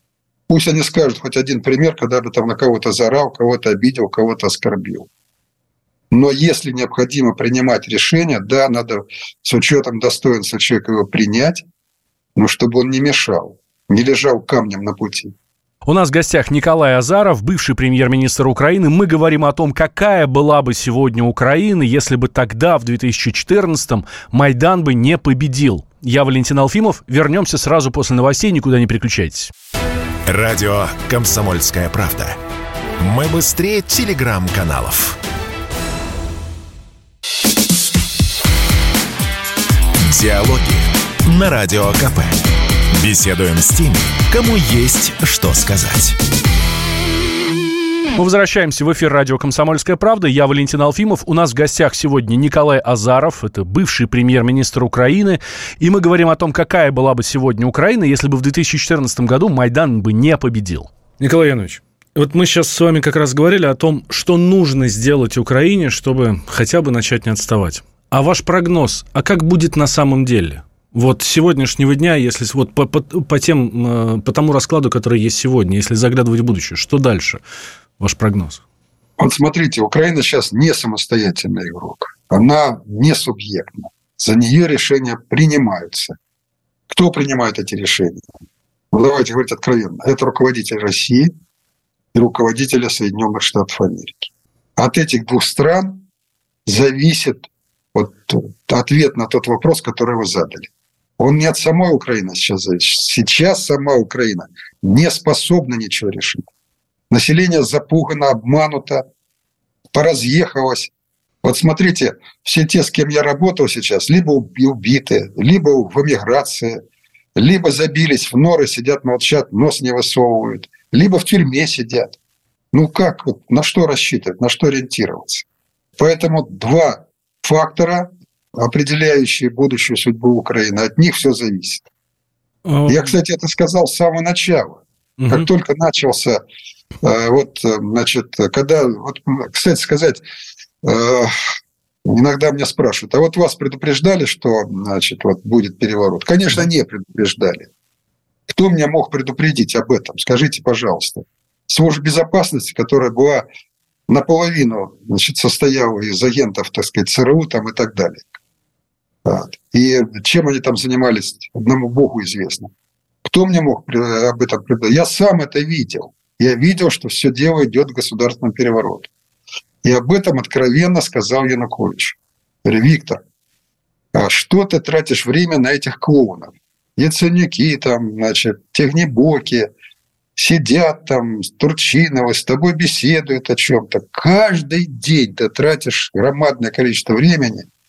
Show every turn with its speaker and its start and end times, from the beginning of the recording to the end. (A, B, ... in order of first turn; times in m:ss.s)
0:00.5-0:05.1 A
0:06.1-0:11.6 A
0:12.4-0:15.3 A
0:15.8-0:29.5 B
0:30.2-0:32.4 C
0:33.0-0:35.2 C
0:40.0-0:46.2 C
0:48.1-1:17.4 B
1:18.0-1:18.6 B
1:19.2-1:26.2 A
1:26.9-1:28.2 A
1:28.9-1:31.3 A
1:32.1-1:36.0 A
1:36.6-1:46.5 A
1:47.1-1:49.0 A
1:49.9-1:50.9 A
1:51.4-1:56.8 A
1:57.4-2:02.2 A
2:02.7-2:05.4 A
2:06.0-2:11.8 A
2:12.6-2:13.1 B
2:12.9-2:16.4 A
2:15.2-2:15.5 B
2:17.0-2:20.2 A
2:20.8-2:21.4 A
2:22.0-2:27.7 A
2:28.5-2:33.4 A
2:34.1-2:38.3 A
2:39.2-2:42.7 A
2:43.2-2:49.1 A
2:49.8-2:53.2 A
2:54.1-2:59.7 A
3:00.4-3:07.7 A